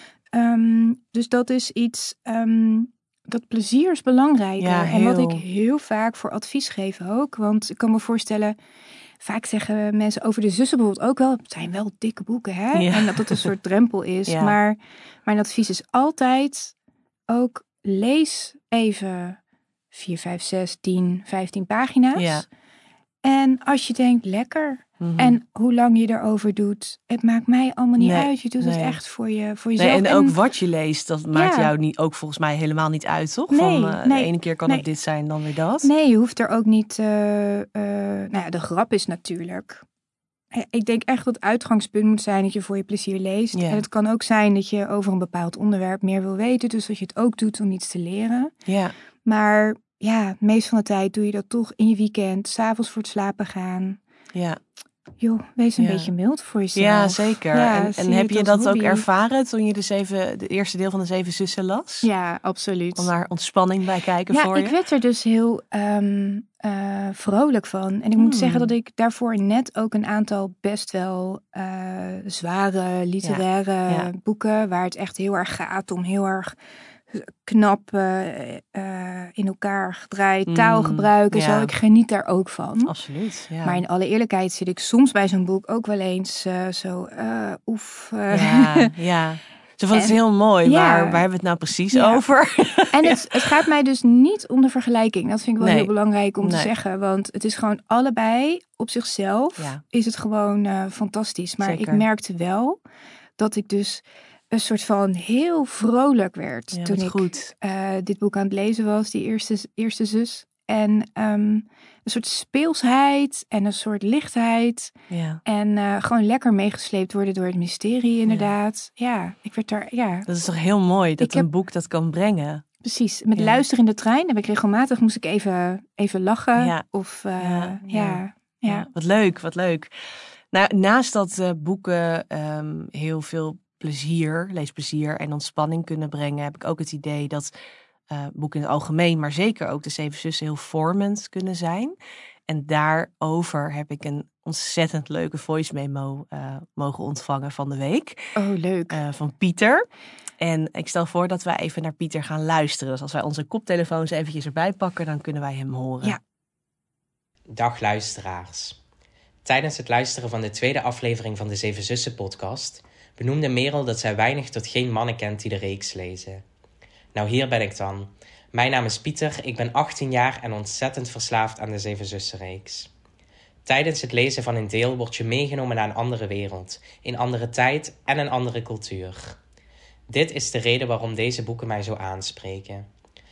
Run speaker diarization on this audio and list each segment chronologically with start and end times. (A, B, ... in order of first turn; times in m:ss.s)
0:00.3-0:08.6 A
0:04.6-0:05.4 B
0:09.2-0:16.7 A
0:12.7-0:13.5 B
0:14.3-0:14.6 B
0:17.3-0:19.4 A
0:19.9-0:22.4 A
0:22.1-0:22.4 B
0:23.2-0:30.4 A
0:25.0-0:25.4 B
0:28.0-0:29.0 B
0:29.8-0:35.9 B
0:31.3-0:31.7 A
0:33.5-0:34.8 A
0:35.8-0:39.8 A
0:40.5-0:48.5 A
0:43.5-0:43.8 B
0:48.6-0:48.9 B
0:49.2-0:54.0 A
0:54.3-0:54.6 B
0:55.2-0:59.0 A
0:55.8-0:56.1 B
0:56.7-1:02.1 B
1:02.0-1:03.1 A
1:03.0-1:04.8 B
1:04.3-1:16.5 A
1:08.2-1:08.7 B
1:13.2-1:14.1 B
1:17.1-1:22.9 A
1:20.5-1:21.7 B
1:22.8-1:23.8 B
1:23.6-1:28.9 A
1:28.3-1:33.5 B
1:29.9-1:31.2 A
1:31.9-1:32.2 A
1:32.9-1:42.8 A
1:35.6-1:35.9 B
1:36.4-1:36.7 B
1:41.6-1:42.0 B
1:43.4-1:54.9 A
1:46.7-1:47.5 B
1:55.1-1:55.4 B
1:55.4-2:00.3 A
2:00.3-2:02.6 B
2:01.2-2:01.4 A
2:02.8-2:08.9 A
2:03.4-2:03.6 B
2:06.6-2:06.8 B
2:07.4-2:09.9 B
2:10.5-2:17.5 B
2:18.1-2:21.9 B
2:22.5-2:28.3 B
2:28.3-2:29.0 A
2:28.9-2:29.8 B
2:30.4-2:36.2 B
2:37.5-2:38.8 C
2:39.4-2:46.4 C
2:47.1-2:52.9 C
2:53.6-2:59.4 C
3:00.1-3:02.8 C